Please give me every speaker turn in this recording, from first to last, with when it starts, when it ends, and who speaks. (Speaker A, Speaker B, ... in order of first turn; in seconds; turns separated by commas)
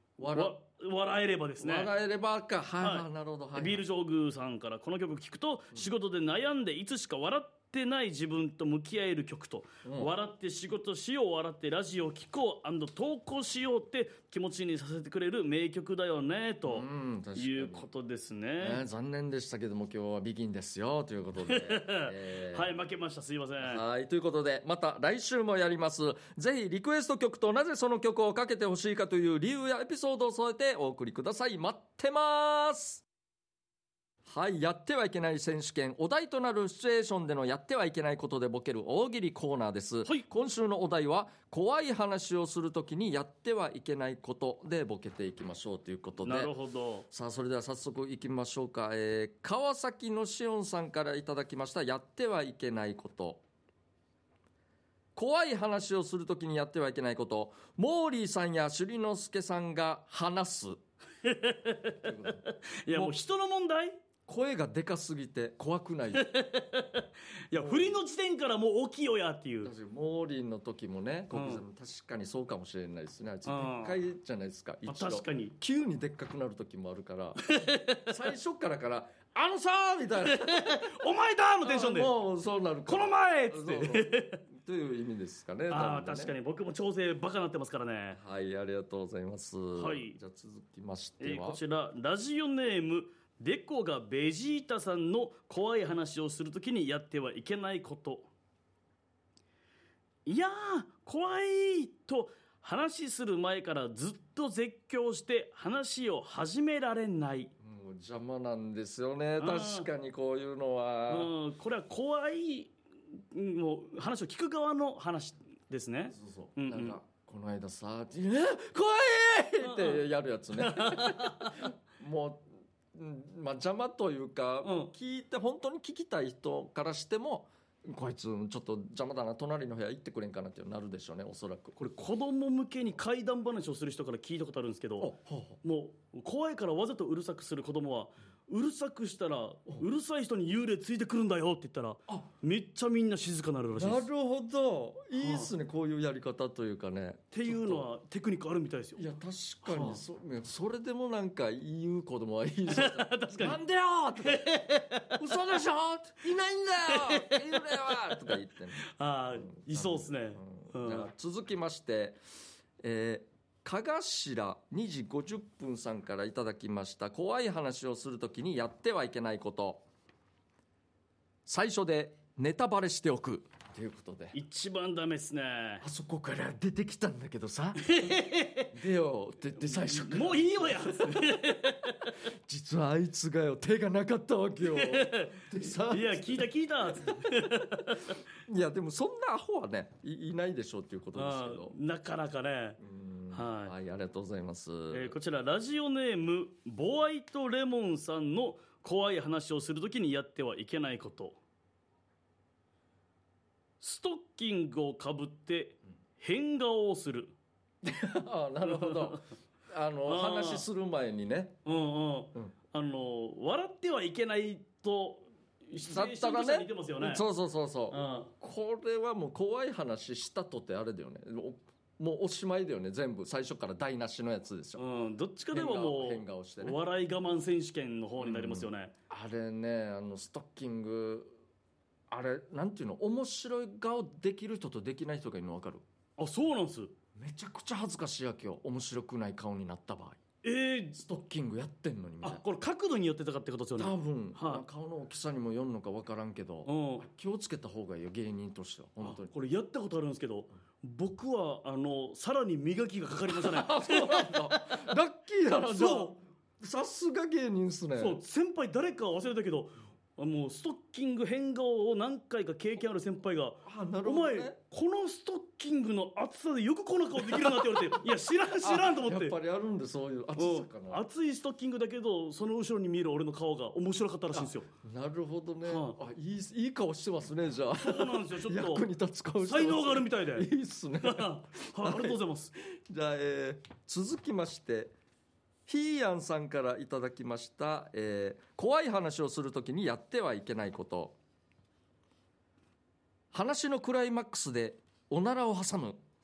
Speaker A: 0.2-0.6, Speaker B: 0.3-1.9, Speaker A: 1.6-3.8, Speaker B: 2.8-18.8, Speaker A: 9.8-10.1, Speaker A: 16.7-17.9, Speaker A: 18.6-22.7, Speaker B: 21.4-23.8, Speaker A: 23.6-33.0, Speaker A: 34.3-46.5, Speaker B: 46.2-47.0, Speaker A: 47.1-53.4, Speaker A: 55.1-60.8, Speaker B: 61.2-64.0, Speaker A: 62.0-63.1, Speaker A: 64.2-66.3, Speaker B: 66.1-69.7, Speaker A: 67.5-68.0, Speaker A: 69.6-80.9, Speaker B: 71.3-71.6, Speaker B: 73.4-74.0, Speaker B: 74.8-75.5, Speaker B: 77.4-78.1, Speaker B: 80.2-82.1, Speaker A: 81.6-86.3, Speaker B: 82.9-84.4, Speaker B: 85.7-88.2, Speaker A: 88.1-91.6, Speaker B: 89.8-90.1, Speaker B: 91.2-98.3, Speaker B: 100.2-107.5, Speaker A: 107.6-111.3, Speaker B: 109.4-109.9, Speaker B: 111.1-117.0, Speaker A: 116.1-131.8, Speaker B: 119.6-121.7, Speaker B: 124.6-124.9, Speaker B: 131.8-144.0, Speaker A: 135.0-135.6, Speaker A: 143.7-147.8, Speaker B: 145.2-145.5, Speaker B: 147.3-149.0, Speaker A: 149.0-154.5, Speaker B: 149.6-150.0, Speaker B: 152.7-153.6, Speaker B: 154.2-155.2, Speaker A: 155.1-162.2, Speaker B: 156.8-161.1, Speaker A: 162.8-169.8, Speaker A: 171.4-174.4, Speaker B: 174.3-175.8, Speaker A: 175.8-178.2, Speaker B: 177.8-178.7, Speaker A: 178.7-186.4, Speaker B: 179.8-182.1, Speaker B: 184.6-188.2, Speaker A: 188.4-191.8, Speaker B: 191.1-192.8, Speaker A: 192.8-195.1, Speaker B: 193.3-193.7, Speaker B: 194.9-201.4, Speaker B: 203.8-207.3, Speaker A: 207.8-211.6, Speaker B: 208.6-209.2, Speaker B: 210.1-210.7, Speaker B: 211.6-217.2, Speaker A: 215.8-224.8, Speaker B: 217.9-218.3, Speaker B: 224.8-228.9, Speaker A: 225.5-226.8, Speaker A: 228.2-231.3, Speaker A: 232.1-235.8, Speaker B: 236.2-236.9, Speaker A: 237.2-240.2, Speaker B: 240.4-241.0, Speaker A: 240.9-242.4, Speaker B: 242.2-244.6, Speaker A: 243.8-249.3, Speaker B: 246.7-247.0, Speaker B: 249.0-255.0, Speaker A: 253.2-258.2, Speaker B: 255.5-256.1, Speaker B: 258.0-269.4, Speaker A: 263.6-264.6, Speaker A: 267.2-271.0, Speaker B: 270.4-274.7, Speaker A: 274.3-284.9, Speaker B: 275.6-276.0, Speaker B: 277.8-278.8, Speaker B: 279.4-280.5, Speaker B: 281.0-282.5, Speaker A: 285.6-291.1, Speaker A: 293.3-296.0